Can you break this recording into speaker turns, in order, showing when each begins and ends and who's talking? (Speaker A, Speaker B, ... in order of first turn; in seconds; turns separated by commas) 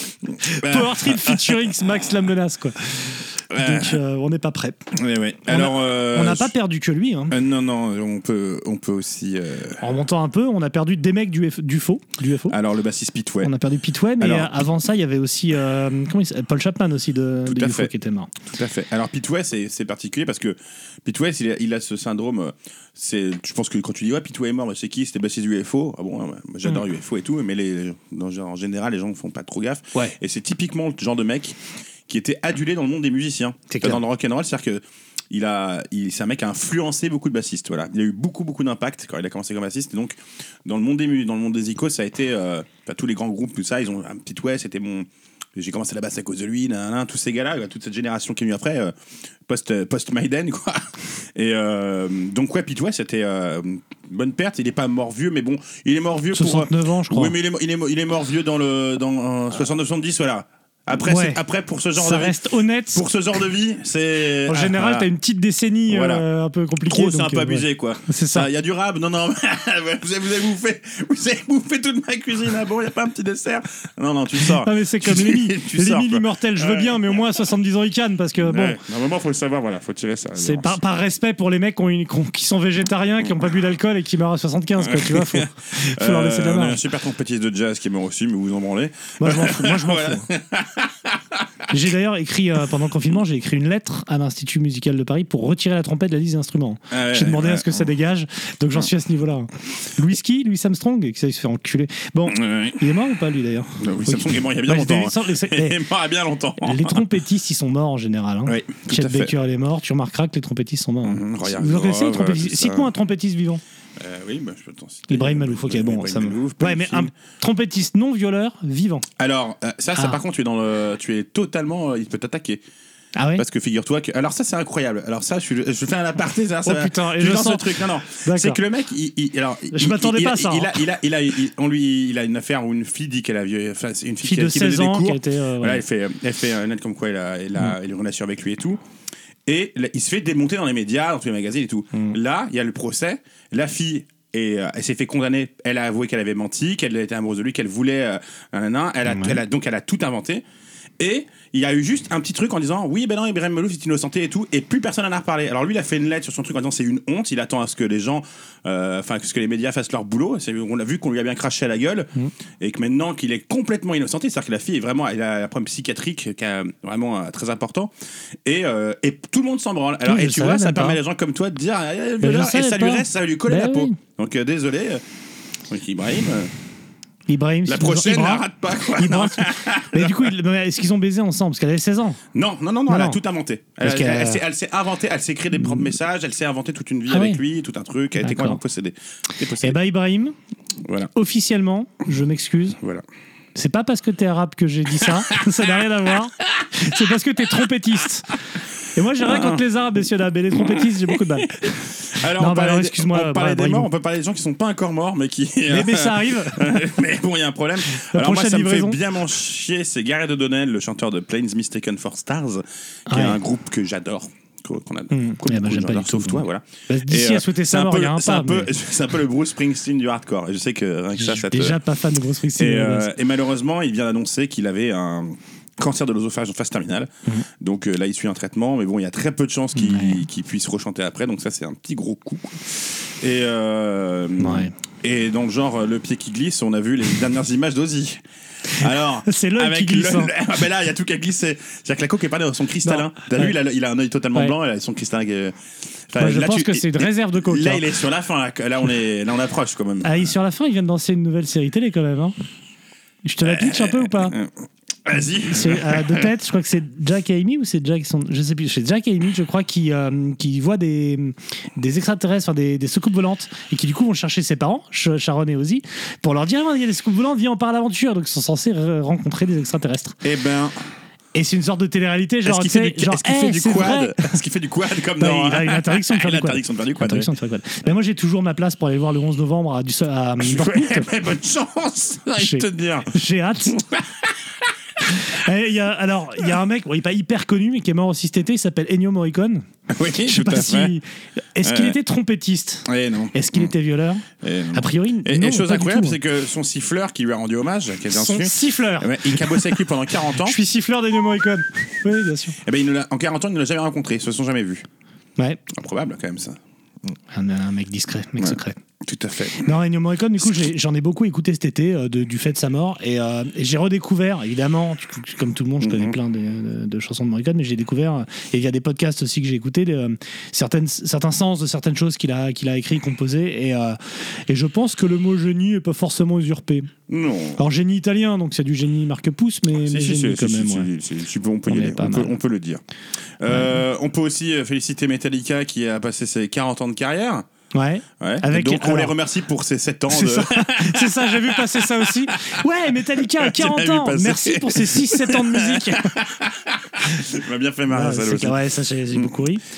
Speaker A: 0.2-1.7, Speaker B: 0.4-4.9, Speaker A: 3.5-4.0, Speaker A: 4.9-6.5, Speaker B: 5.5-7.3, Speaker A: 7.3-9.8, Speaker B: 9.8-12.6, Speaker A: 12.5-13.5, Speaker B: 13.4-18.3, Speaker A: 14.2-14.6, Speaker A: 17.5-17.9, Speaker A: 18.4-31.6, Speaker A: 32.1-49.0, Speaker B: 33.7-34.0, Speaker A: 49.5-65.1, Speaker B: 56.3-57.4, Speaker B: 60.9-61.4, Speaker B: 62.0-63.0, Speaker B: 64.5-68.5, Speaker A: 65.9-66.2, Speaker A: 66.9-77.2, Speaker B: 74.4-78.8, Speaker A: 78.4-80.8, Speaker B: 80.4-86.8, Speaker A: 84.8-91.2, Speaker B: 89.2-90.3, Speaker B: 91.7-105.8, Speaker A: 96.9-97.9, Speaker A: 102.3-102.8, Speaker A: 103.8-107.0, Speaker B: 106.6-113.6, Speaker A: 108.5-109.3, Speaker A: 111.0-112.9, Speaker A: 114.0-117.1, Speaker B: 115.1-119.1, Speaker A: 119.2-122.6, Speaker B: 123.2-123.4, Speaker A: 123.4-138.8, Speaker B: 126.6-128.6, Speaker B: 129.7-130.8, Speaker B: 134.2-135.8, Speaker A: 139.5-150.4, Speaker B: 149.1-149.4, Speaker A: 151.0-167.9, Speaker A: 168.4-175.0, Speaker B: 170.1-171.0, Speaker B: 172.2-174.0, Speaker A: 175.7-176.5, Speaker B: 177.3-182.2, Speaker A: 177.7-180.3, Speaker A: 182.3-189.8, Speaker B: 182.9-183.2, Speaker B: 183.8-184.4, Speaker B: 187.1-187.4, Speaker B: 188.2-188.6, Speaker B: 189.6-190.3, Speaker A: 190.8-191.1, Speaker B: 191.2-192.8, Speaker A: 192.8-193.1, Speaker B: 193.6-198.3, Speaker B: 198.9-201.8, Speaker A: 199.2-199.6, Speaker A: 200.5-221.8, Speaker B: 202.3-203.9, Speaker B: 205.7-206.9, Speaker B: 207.9-209.0, Speaker B: 213.1-213.4, Speaker B: 215.1-218.7, Speaker B: 221.2-223.1, Speaker A: 222.6-238.2, Speaker B: 229.8-230.2, Speaker B: 234.4-234.7, Speaker A: 238.7-245.6, Speaker B: 238.8-240.4, Speaker B: 242.8-243.5, Speaker A: 246.1-250.2, Speaker B: 246.2-247.9, Speaker B: 250.0-252.3, Speaker B: 253.2-254.4, Speaker A: 253.4-254.5, Speaker A: 255.1-256.3, Speaker B: 255.4-270.2, Speaker A: 270.2-270.8, Speaker B: 271.3-274.3, Speaker A: 272.4-277.3, Speaker B: 275.2-281.1, Speaker A: 280.4-283.2, Speaker B: 282.4-283.8, Speaker A: 283.7-284.4, Speaker B: 285.0-289.6, Speaker A: 289.9-291.0, Speaker B: 290.2-296.2, Speaker A: 291.6-292.0, Speaker A: 292.9-293.7, Speaker A: 294.4-300.6, Speaker B: 298.1-299.9, Speaker B: 300.4-302.6, Speaker A: 302.6-304.9, Speaker A: 305.7-306.6, Speaker B: 307.3-308.8, Speaker A: 308.4-309.7, Speaker B: 309.6-326.9, Speaker A: 315.8-316.1, Speaker A: 327.1-327.6, Speaker B: 327.6-330.9, Speaker A: 329.8-332.8, Speaker B: 331.7-332.4, Speaker A: 333.4-337.5, Speaker B: 333.5-333.8, Speaker B: 337.7-339.1, Speaker A: 338.2-342.6, Speaker B: 340.1-346.1, Speaker A: 343.2-348.6, Speaker B: 347.9-349.6, Speaker A: 349.1-349.4